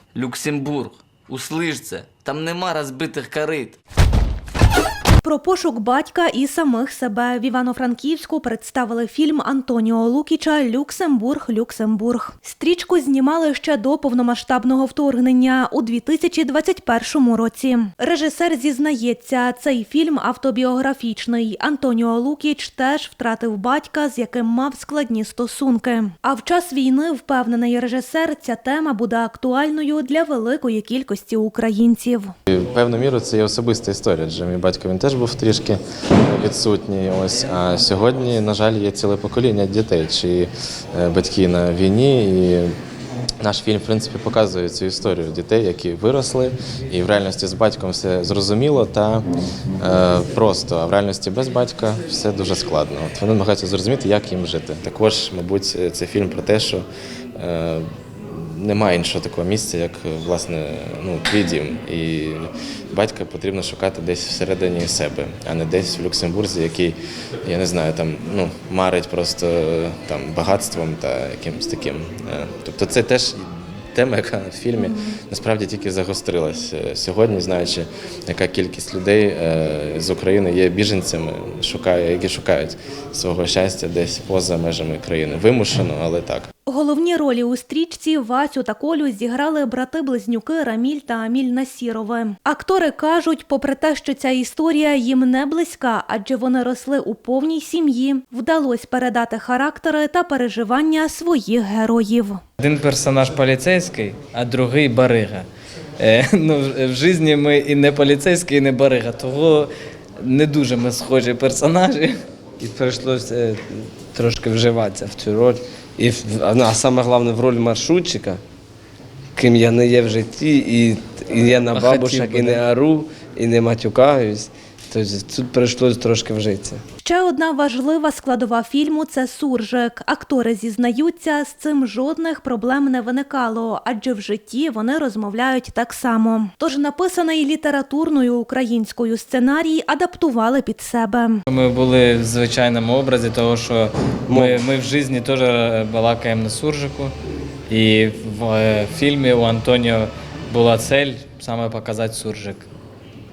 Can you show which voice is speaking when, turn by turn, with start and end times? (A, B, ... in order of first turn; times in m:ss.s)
0:00.1-0:03.8 A
0:05.2-0:32.3 B
0:32.5-0:42.7 C
0:43.4-0:49.3 C
0:49.8-1:26.5 C
1:26.6-1:42.4 B
1:42.6-1:45.5 D
1:46.0-1:52.2 D
1:52.6-1:58.4 E
1:59.3-2:06.8 E
2:01.7-2:02.6 D
2:07.0-2:21.4 B
2:21.5-2:27.1 D
2:24.3-2:24.6 E
2:27.7-2:32.7 D